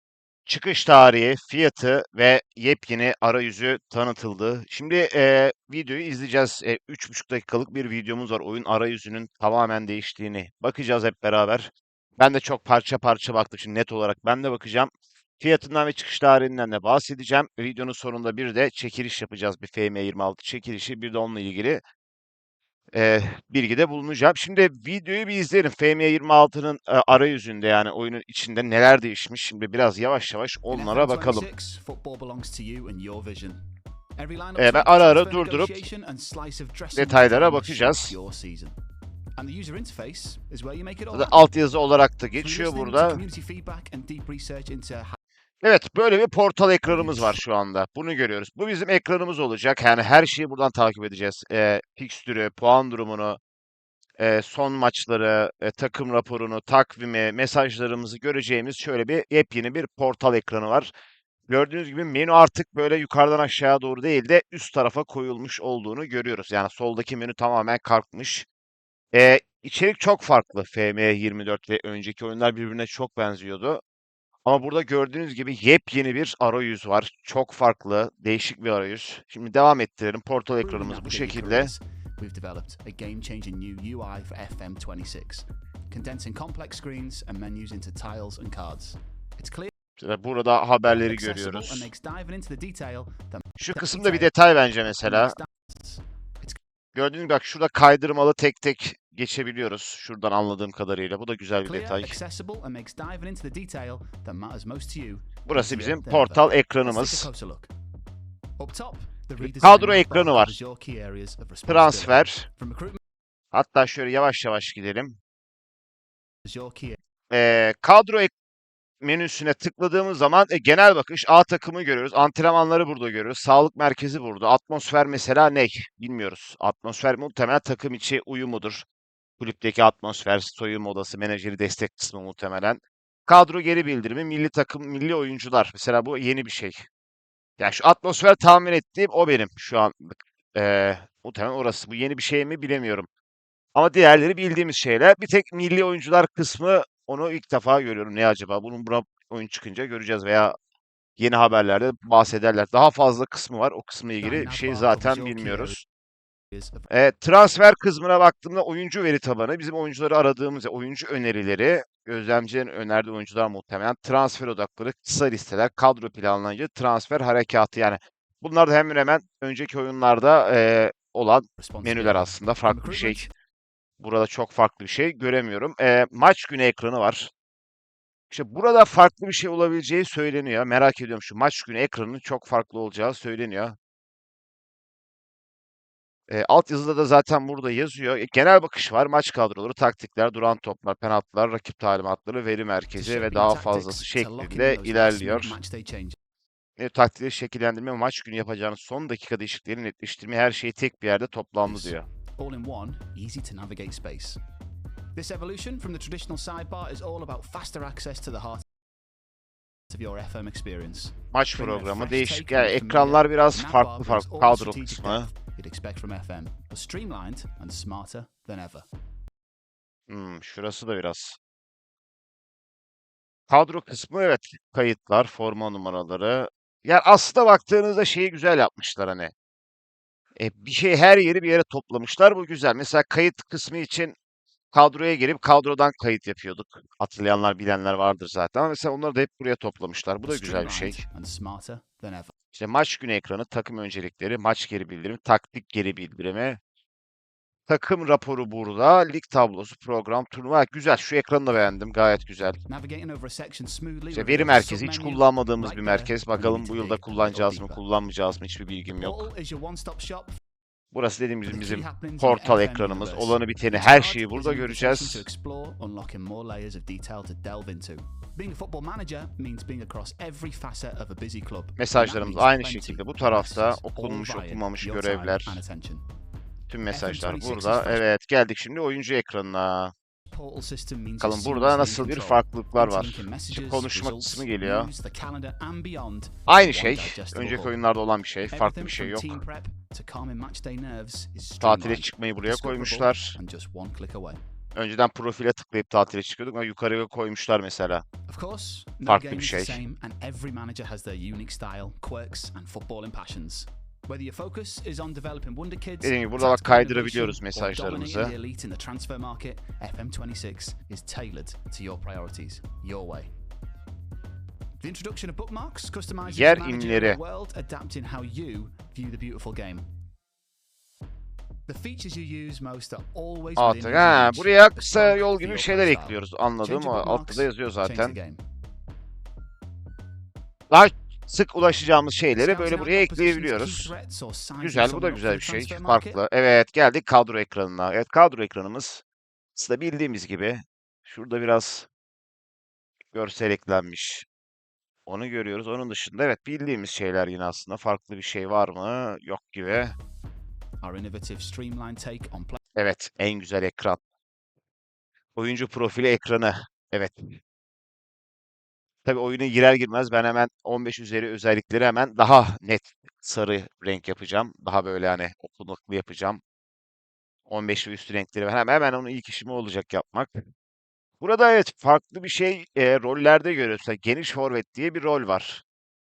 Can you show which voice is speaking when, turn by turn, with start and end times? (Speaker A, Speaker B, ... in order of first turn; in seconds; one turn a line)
Speaker A: 0.5-21.8
Speaker A: 22.9-31.5
Speaker B: 30.7-33.6
Speaker B: 34.2-38.8
Speaker A: 34.6-35.9
Speaker A: 37.0-38.1
Speaker B: 39.4-41.5
Speaker A: 41.1-43.2
Speaker B: 42.4-45.2
Speaker A: 45.6-53.4
Speaker B: 46.9-47.4
Speaker A: 54.2-60.9
Speaker A: 61.5-68.5
Speaker A: 69.1-73.8
Speaker A: 74.5-81.7
Speaker B: 80.6-89.7
Speaker A: 90.0-91.9
Speaker B: 90.9-96.6
Speaker A: 93.6-95.3
Speaker A: 97.0-102.2
Speaker B: 101.6-107.7
Speaker A: 105.5-107.3
Speaker B: 108.6-113.0
Speaker A: 109.4-110.5
Speaker A: 111.7-112.5
Speaker A: 113.5-115.2
Speaker B: 116.5-117.0
Speaker A: 117.3-118.3
Speaker A: 119.0-128.9
Speaker A: 129.4-136.8
Speaker A: 137.6-143.1
Speaker A: 143.8-150.6
Speaker A: 151.2-155.8
Speaker B: 154.2-155.8
Speaker B: 156.5-156.9
Speaker A: 156.9-173.2
Speaker B: 171.6-173.3
Speaker A: 174.0-177.3
Speaker A: 178.3-183.8
Speaker A: 186.3-195.6
Speaker B: 192.9-196.2
Speaker A: 196.8-202.1
Speaker B: 201.7-204.4
Speaker B: 205.2-208.6
Speaker B: 209.9-218.9
Speaker A: 211.3-215.3
Speaker A: 220.1-221.4
Speaker A: 223.5-229.3
Speaker A: 230.4-234.2
Speaker A: 234.7-241.0
Speaker B: 240.2-242.3
Speaker A: 242.5-246.6
Speaker A: 247.7-252.6
Speaker B: 252.7-257.8
Speaker A: 254.1-259.3
Speaker B: 259.0-260.4
Speaker A: 260.9-265.2
Speaker B: 261.5-276.1
Speaker A: 271.8-275.6
Speaker A: 276.7-279.9
Speaker B: 276.9-278.1
Speaker B: 280.3-287.8
Speaker A: 281.2-284.9
Speaker A: 286.5-289.4
Speaker B: 288.5-294.4
Speaker A: 291.6-293.4
Speaker A: 294.8-298.1
Speaker B: 298.3-313.3
Speaker A: 299.1-299.8
Speaker A: 306.0-308.4
Speaker B: 314.8-319.9
Speaker A: 316.2-317.2
Speaker B: 321.7-328.4
Speaker A: 323.6-328.2
Speaker A: 330.7-333.9
Speaker B: 332.4-336.2
Speaker A: 334.6-339.0
Speaker A: 339.6-341.9
Speaker A: 343.1-344.2
Speaker A: 345.1-349.9
Speaker B: 350.8-352.6
Speaker A: 352.8-354.0
Speaker A: 355.4-357.4
Speaker A: 359.1-366.4
Speaker A: 367.5-370.4
Speaker A: 371.2-375.6